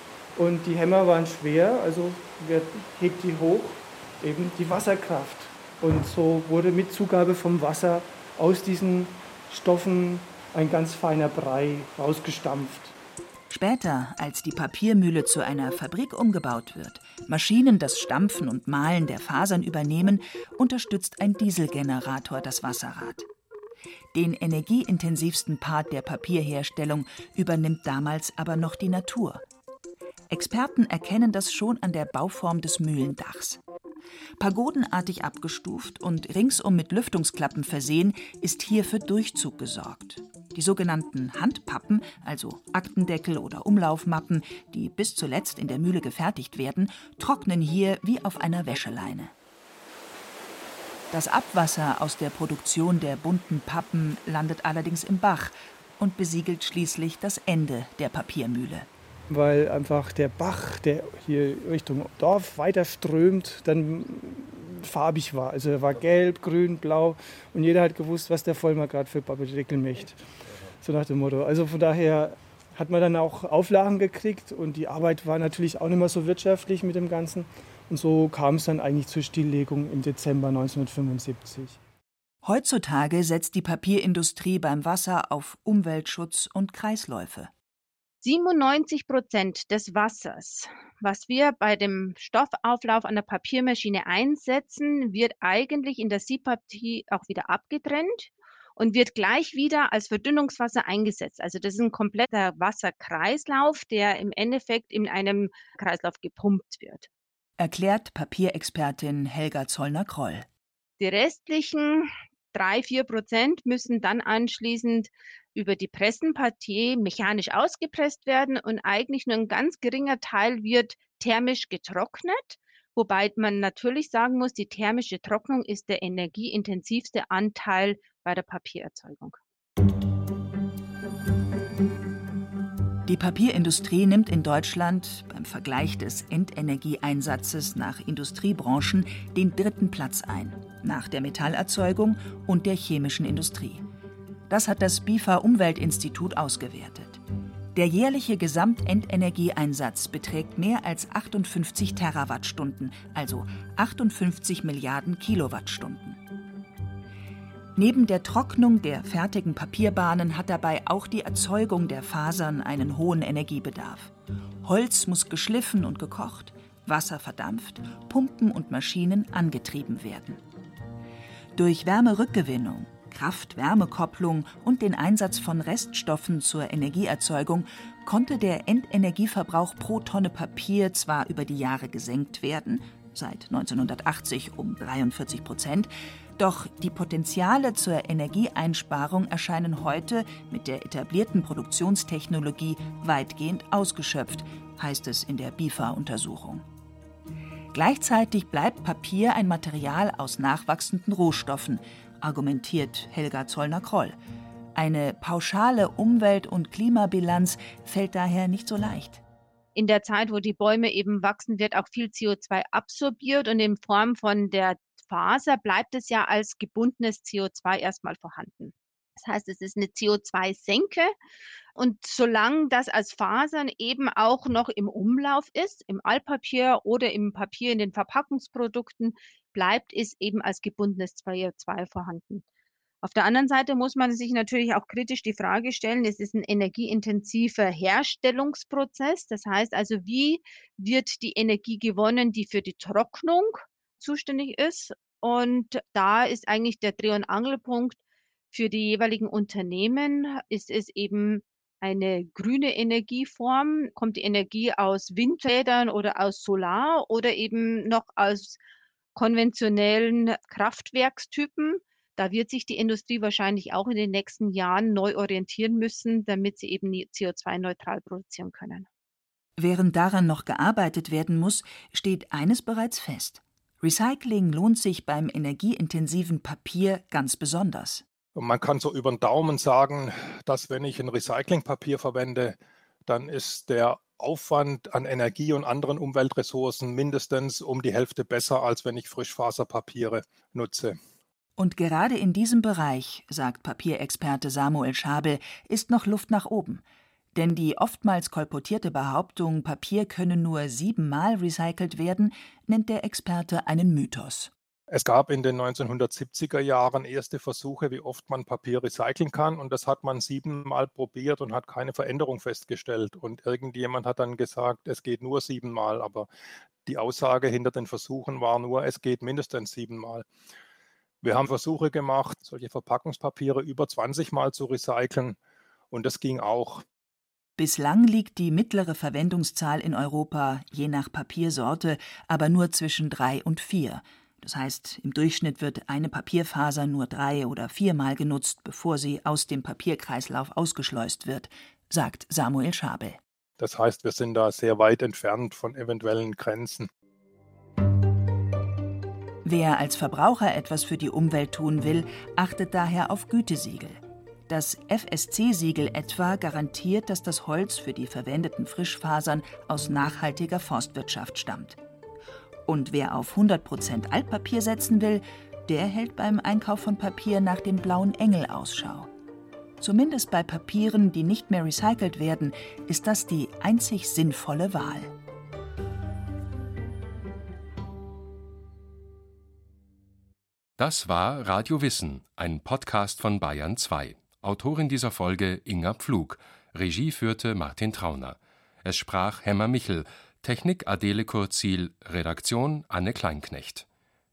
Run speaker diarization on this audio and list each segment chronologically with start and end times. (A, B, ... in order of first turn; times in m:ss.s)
0:00.4-0:12.9 A
0:13.5-0:23.3 B
0:24.1-0:29.4 B
0:30.3-0:33.6 B
0:34.4-0:49.3 B
0:51.1-0:58.9 B
0:59.3-1:10.2 A
1:10.8-1:21.8 A
1:22.4-1:27.5 B
1:28.2-1:47.1 C
1:47.6-1:50.5 B
1:51.0-2:09.4 C
2:13.1-2:23.8 B
2:24.5-2:27.2 B
2:27.7-2:36.2 B
2:37.8-2:44.1 B
2:44.6-2:50.4 B
2:51.5-3:16.6 B
3:17.7-3:24.2 B
3:24.7-3:29.2 B
3:29.7-3:41.1 C
3:41.8-3:52.4 C
3:53.0-4:08.0 C
4:08.5-4:18.6 C
4:19.1-4:28.9 C
4:29.6-4:38.0 B
4:38.3-4:51.0 D
4:51.6-4:56.8 B
4:57.3-5:04.5 B
5:04.9-5:16.3 D
5:16.8-5:20.2 D
5:21.2-5:25.4 D
5:25.9-5:26.8 D
5:27.6-5:43.2 B
5:43.6-5:46.9 D
5:49.4-6:01.8 B
6:02.7-6:09.1 B
6:09.8-6:15.1 B
6:20.8-6:33.8 E